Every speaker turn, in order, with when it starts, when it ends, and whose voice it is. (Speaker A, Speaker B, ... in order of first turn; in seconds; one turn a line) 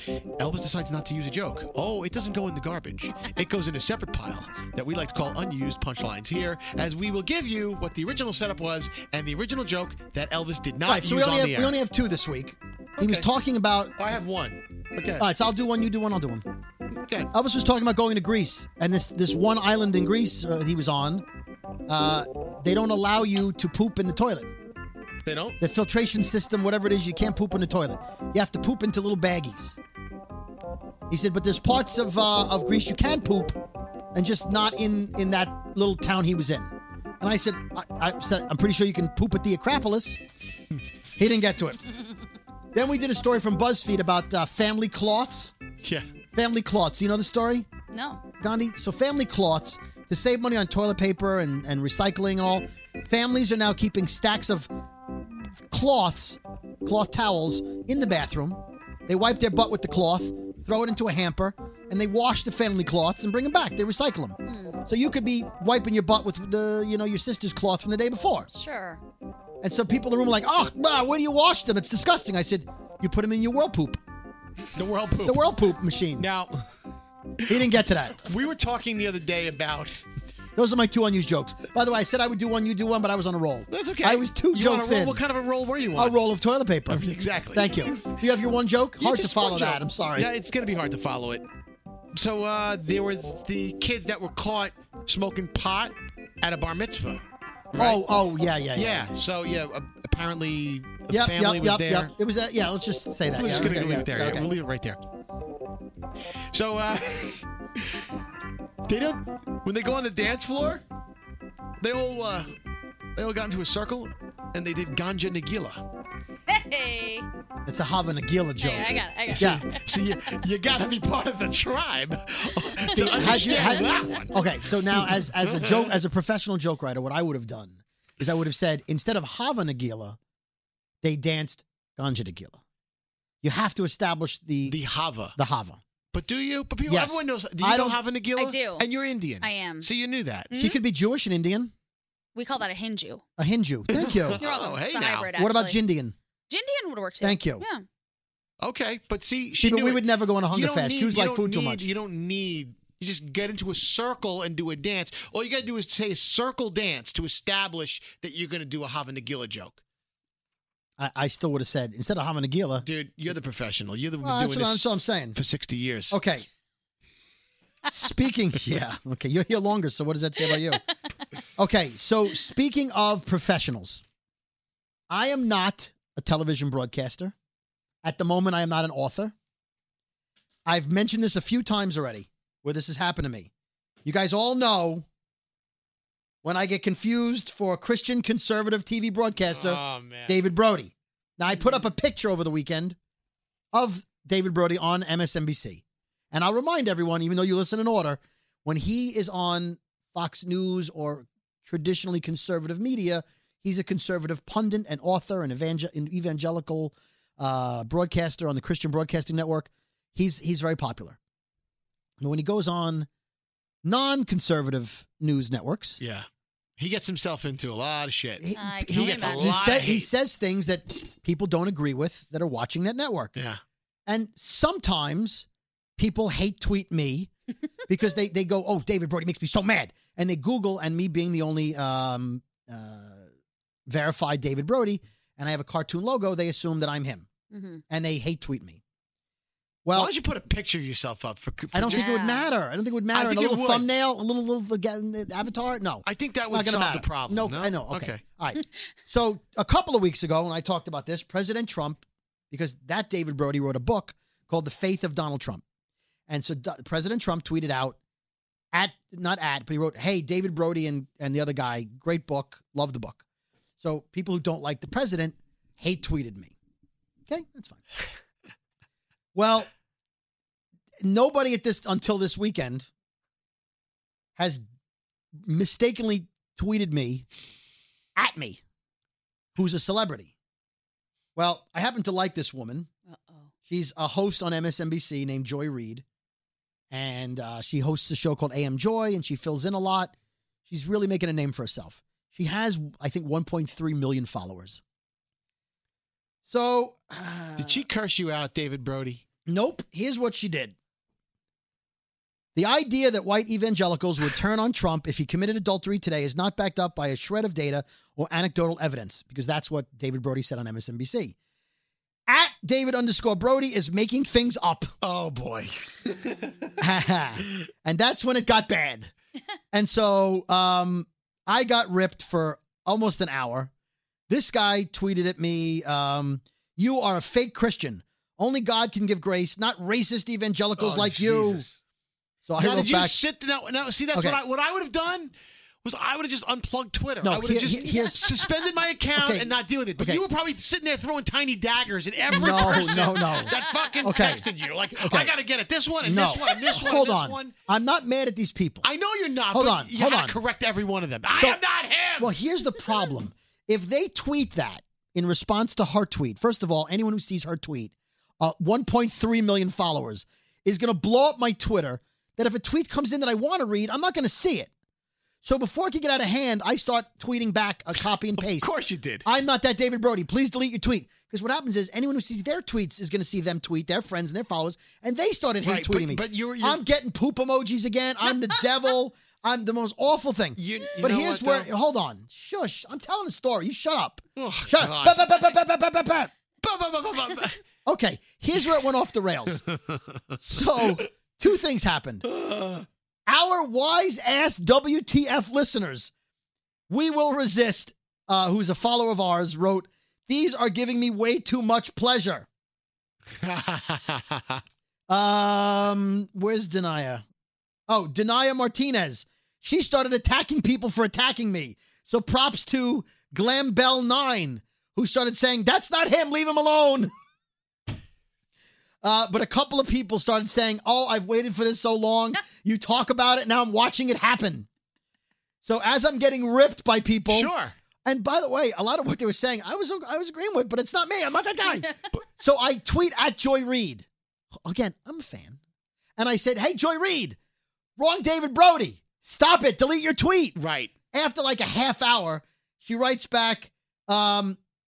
Speaker A: 0.4-11.8
Speaker B: 10.9-13.9
Speaker A: 13.0-13.3
Speaker A: 14.0-15.3
Speaker B: 15.2-16.4
Speaker B: 17.3-21.2
Speaker B: 21.9-24.5
Speaker A: 25.3-25.6
Speaker B: 25.6-29.8
Speaker B: 31.1-33.6
Speaker B: 34.1-40.2
Speaker B: 41.2-41.8
Speaker B: 42.7-45.5
Speaker B: 46.4-47.7
Speaker C: 47.9-48.2
Speaker B: 48.4-54.7
Speaker B: 55.7-68.5
Speaker C: 64.5-64.8
Speaker C: 68.5-69.0
Speaker B: 69.6-74.0
Speaker A: 74.7-75.5
Speaker B: 75.2-76.3
Speaker A: 76.2-76.7
Speaker A: 77.4-80.0
Speaker B: 77.5-78.2
Speaker B: 80.6-85.2
Speaker A: 83.7-86.2
Speaker B: 86.0-90.3
Speaker A: 86.9-88.3
Speaker A: 89.0-91.5
Speaker A: 92.2-97.2
Speaker A: 97.7-98.0
Speaker B: 97.8-99.1
Speaker A: 98.8-102.1
Speaker B: 101.1-104.5
Speaker A: 103.3-105.0
Speaker A: 106.5-107.5
Speaker A: 108.9-110.8
Speaker A: 111.8-112.5
Speaker A: 113.2-115.8
Speaker C: 116.5-117.3
Speaker B: 117.7-119.6
Speaker C: 118.6-119.8
Speaker A: 119.3-126.0
Speaker C: 122.8-124.1
Speaker B: 122.9-130.2
Speaker B: 131.0-132.6
Speaker B: 133.4-134.8
Speaker A: 134.7-135.4
Speaker B: 135.4-135.8
Speaker A: 136.1-140.5
Speaker B: 136.9-138.0
Speaker C: 138.3-138.9
Speaker C: 139.4-139.9
Speaker C: 140.5-140.8
Speaker B: 140.5-141.7
Speaker C: 142.3-143.2
Speaker B: 143.4-144.4
Speaker A: 143.9-145.3
Speaker C: 144.4-145.8
Speaker B: 145.3-146.2
Speaker C: 146.5-147.8
Speaker B: 147.2-147.6
Speaker A: 148.6-159.8
Speaker B: 149.6-151.9
Speaker B: 161.0-162.9
Speaker A: 162.8-166.2
Speaker B: 164.2-165.4
Speaker B: 166.1-166.5
Speaker B: 167.9-170.8
Speaker B: 171.6-174.0
Speaker B: 175.1-177.3
Speaker B: 178.0-179.3
Speaker B: 180.7-183.5
Speaker B: 184.0-185.1
Speaker B: 186.4-193.0
Speaker A: 189.5-190.4
Speaker B: 193.7-211.2
Speaker B: 212.2-213.1
Speaker B: 213.8-216.0
Speaker A: 216.0-216.3
Speaker A: 216.8-220.1
Speaker B: 218.4-223.3
Speaker C: 218.6-219.6
Speaker B: 224.1-225.5
Speaker B: 226.0-227.3
Speaker B: 227.9-233.3
Speaker B: 233.9-237.3
Speaker C: 237.5-237.8
Speaker B: 237.9-238.8
Speaker B: 239.8-240.1
Speaker A: 239.9-242.1
Speaker B: 241.7-255.6
Speaker C: 241.9-242.5
Speaker A: 243.1-243.9
Speaker A: 246.1-248.2
Speaker B: 256.3-258.0
Speaker B: 258.7-263.2
Speaker B: 263.8-266.5
Speaker B: 267.3-267.8
Speaker B: 269.4-269.7
Speaker B: 271.0-272.9
Speaker B: 274.4-274.6
Speaker B: 275.4-277.3
Speaker B: 278.2-278.6
Speaker B: 279.6-280.3
Speaker B: 281.4-282.9
Speaker C: 283.1-283.5
Speaker B: 283.7-286.0
Speaker B: 286.9-290.1
Speaker B: 290.7-294.8
Speaker B: 296.5-297.9
Speaker A: 297.6-299.2
Speaker B: 299.5-300.8
Speaker B: 302.6-311.4
Speaker B: 312.3-314.9
Speaker A: 315.0-316.8
Speaker B: 316.8-319.1
Speaker B: 319.7-323.7
Speaker B: 324.3-331.6
Speaker A: 330.8-331.7
Speaker B: 332.4-333.2
Speaker A: 332.6-335.3
Speaker B: 334.1-334.4
Speaker A: 335.8-347.6
Speaker B: 337.2-338.3
Speaker B: 339.2-340.2
Speaker B: 342.3-345.3
Speaker B: 346.0-348.9
Speaker A: 348.8-352.3
Speaker B: 349.5-350.4
Speaker B: 351.3-351.6
Speaker B: 352.2-364.7
Speaker B: 365.4-368.7
Speaker A: 368.4-369.2
Speaker B: 369.2-386.3
Speaker A: 375.6-376.8
Speaker A: 380.6-381.7
Speaker A: 384.4-385.3
Speaker A: 386.6-387.6
Speaker B: 387.9-389.6
Speaker A: 389.7-390.0
Speaker B: 390.4-392.3
Speaker A: 392.3-392.9
Speaker B: 393.3-396.1
Speaker B: 396.9-402.5
Speaker A: 403.4-404.6
Speaker B: 405.1-407.2
Speaker B: 407.9-417.1
Speaker B: 419.0-424.7
Speaker B: 425.6-427.5
Speaker A: 427.3-427.7
Speaker B: 428.1-434.1
Speaker B: 434.6-435.6
Speaker B: 436.2-437.4
Speaker B: 438.0-440.6
Speaker A: 440.6-440.9
Speaker B: 441.1-444.6